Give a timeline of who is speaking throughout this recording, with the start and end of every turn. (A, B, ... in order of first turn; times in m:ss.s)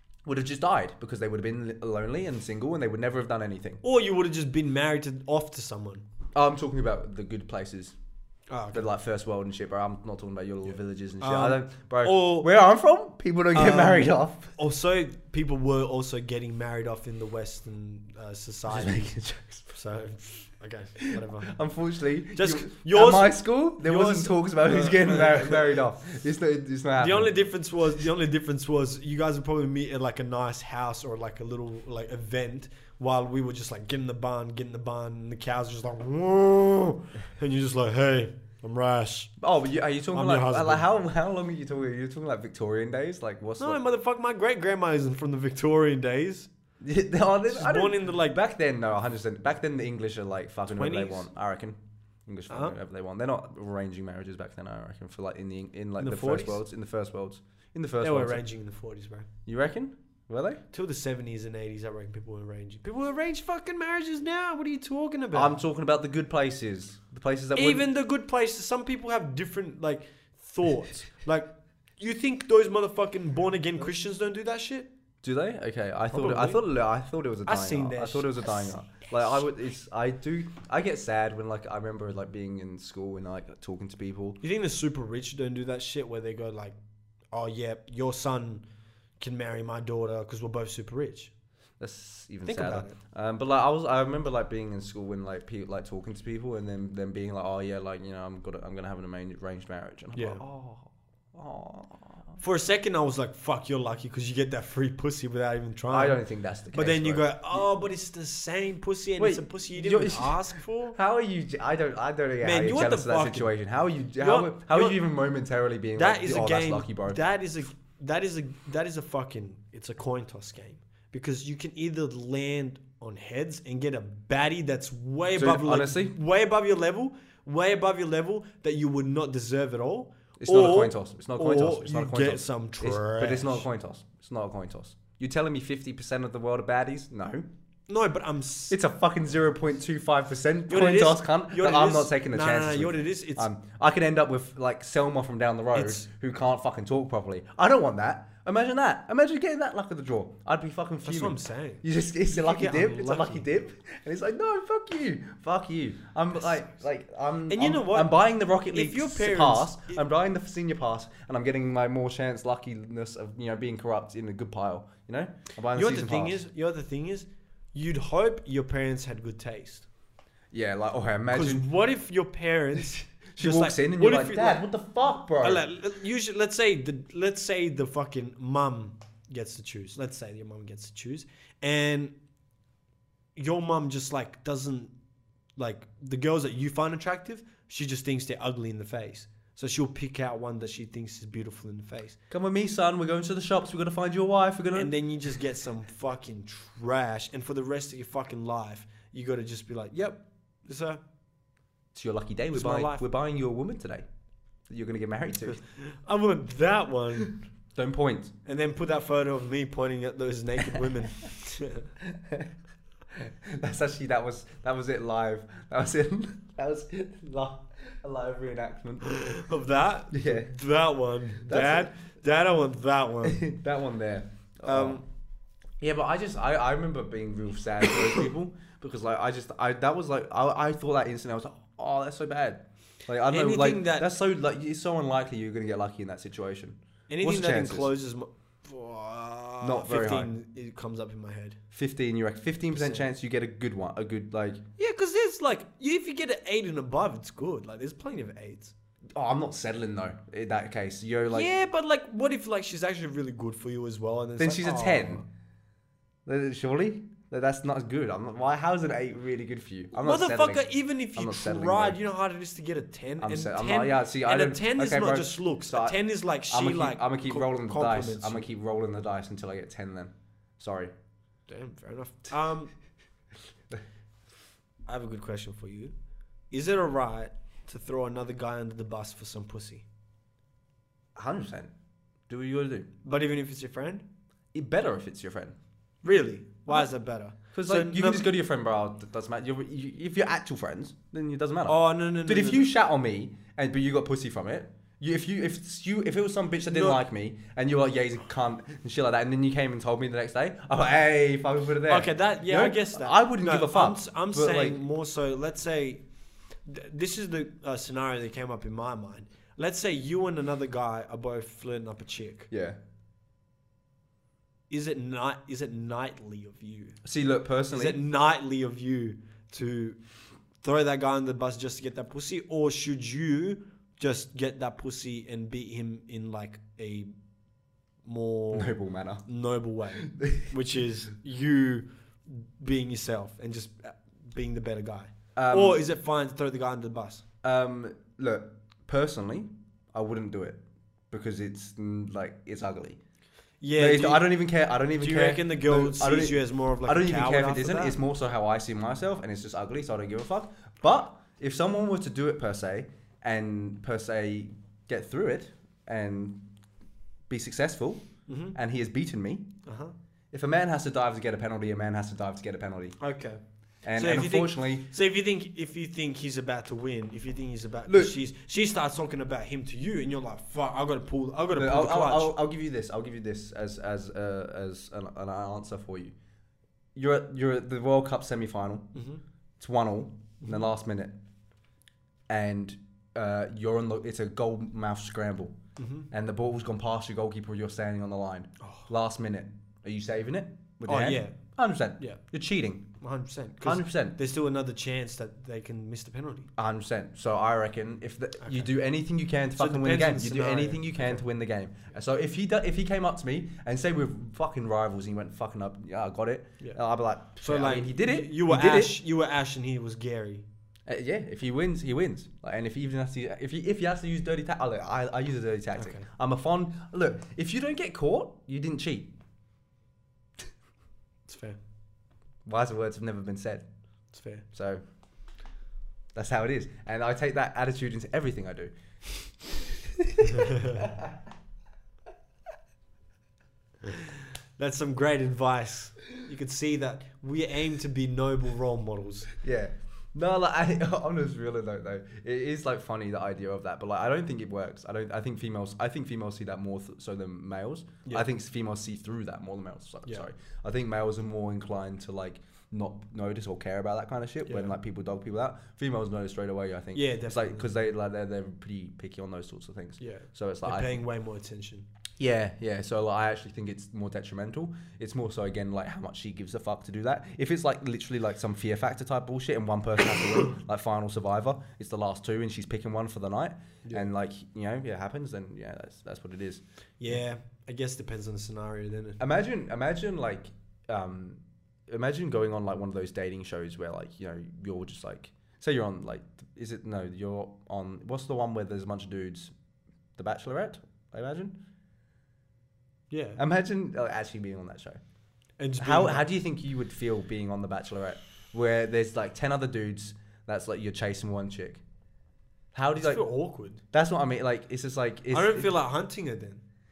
0:00.2-0:03.8 A
0:03.8-0:06.0 B
0:06.4-0:08.0 A
0:08.5-0:08.9 B
0:08.7-0:14.5 A
0:11.2-0:12.5 B
0:13.5-0:19.1 B
0:18.7-0:19.7 A
0:19.7-0:21.6 B
0:21.0-0:27.4 A
0:22.4-0:25.8 B
0:27.0-0:39.3 B
0:39.4-0:43.8 A
0:40.1-0:40.9 B
0:43.6-0:46.5 B
0:46.8-0:58.4 A
0:47.5-0:48.4 B
0:50.8-0:51.3 B
0:52.5-0:52.8 B
0:56.0-0:56.6 B
0:58.0-0:59.3 B
0:59.5-1:00.6 A
1:00.7-1:05.6 B
1:05.3-1:07.9 A
1:07.6-1:14.9 B
1:15.2-1:24.4 A
1:16.1-1:16.6 B
1:17.5-1:18.7 B
1:24.4-1:26.8 B
1:27.3-1:28.6 B
1:29.2-1:31.3 B
1:31.8-1:42.4 A
1:32.5-1:33.0 B
1:40.2-1:40.4 B
1:42.4-1:46.2 B
1:45.9-1:47.7 A
1:46.7-1:51.0 B
1:49.2-1:57.2 A
1:52.4-1:53.5 B
1:54.2-1:55.0 B
1:56.0-2:13.6 B
2:05.4-2:06.2 A
2:10.4-2:17.5 A
2:17.9-2:18.8 B
2:18.7-2:46.4 A
2:20.7-2:23.5 B
2:25.7-2:26.1 B
2:31.0-2:33.5 B
2:37.5-2:38.2 B
2:38.7-2:40.0 B
2:45.7-2:49.9 B
2:50.5-2:51.6 A
2:51.3-2:54.7 B
2:53.4-2:55.7 A
2:55.4-3:02.2 B
3:03.4-3:04.9 B
3:05.6-3:12.2 B
3:12.3-3:14.9 A
3:14.7-3:21.0 B
3:21.9-3:24.1 A
3:22.5-3:23.1 B
3:24.7-3:25.6 A
3:25.8-3:27.4 B
3:27.8-3:28.3 A
3:28.4-3:31.9 B
3:32.0-3:32.5 A
3:33.2-3:39.4 A
3:39.1-3:43.5 B
3:40.1-3:40.5 A
3:41.4-3:42.0 A
3:43.2-3:45.0 A
3:44.7-3:45.0 B
3:45.8-3:57.9 A
3:53.3-3:54.1 B
3:57.1-4:01.6 B
3:59.6-4:00.3 A
4:01.7-4:04.6 A
4:02.7-4:03.1 B
4:04.8-4:08.7 B
4:09.2-4:11.5 A
4:11.3-4:15.3 B
4:14.4-4:15.2 A
4:16.3-4:22.0 A
4:20.0-4:28.5 B
4:23.2-4:30.9 A
4:31.5-4:32.7 B
4:34.9-4:35.9 B
4:36.5-4:39.8 B
4:41.2-4:41.7 A
4:42.3-4:42.9 A
4:43.0-4:44.0 B
4:44.5-4:45.6 A
4:46.0-4:48.3 B
4:47.5-5:04.8 A
4:51.7-4:52.7 B
4:56.7-4:57.0 B
5:01.9-5:06.0 B
5:06.7-5:12.5 B
5:12.5-5:12.8 A
5:14.7-5:17.0 B
5:17.0-5:18.0 A
5:17.7-5:20.0 B
5:20.6-5:27.1 B
5:28.0-5:37.2 B
5:28.5-5:29.3 A
5:30.0-5:30.5 A
5:35.4-5:35.8 A
5:37.4-5:43.0 A
5:43.6-5:44.3 B
5:43.8-5:56.5 A
5:45.0-5:48.0 B
5:57.3-5:59.5 A
5:58.3-5:58.6 B
5:59.6-6:00.0 B
6:00.3-6:03.0 A
6:03.0-6:03.4 B
6:03.8-6:04.9 A
6:04.0-6:12.4 B
6:07.9-6:08.2 A
6:11.5-6:16.2 A
6:17.0-6:18.9 A
6:18.9-6:19.2 B
6:19.6-6:21.2 A
6:22.3-6:25.6 A
6:25.8-6:26.1 B
6:26.1-6:32.9 A
6:28.6-6:28.9 B
6:30.9-6:31.4 B
6:33.0-6:36.5 B
6:33.6-6:34.2 A
6:36.6-6:49.0 A
6:39.6-6:41.2 B
6:47.4-6:50.5 B
6:50.9-6:59.1 A
6:55.8-6:56.1 B
7:01.3-7:01.6 B
7:02.5-7:03.6 A
7:04.1-7:04.5 B
7:04.5-7:04.8 A
7:06.2-7:08.7 A
7:09.5-7:11.2 A
7:13.8-7:19.3 B
7:19.4-7:41.0 A
7:34.5-7:34.8 B
7:36.9-7:37.8 B
7:40.0-7:41.9 B
7:42.2-7:57.2 A
7:53.8-7:54.1 B
7:57.0-7:59.2 B
7:59.2-8:09.5 A
8:10.2-8:11.6 A
8:13.1-8:13.4 B
8:13.4-8:15.0 A
8:15.6-8:16.3 B
8:15.8-8:21.8 A
8:22.7-8:23.2 A
8:23.0-8:23.8 B
8:23.9-8:25.8 A
8:25.3-8:26.6 B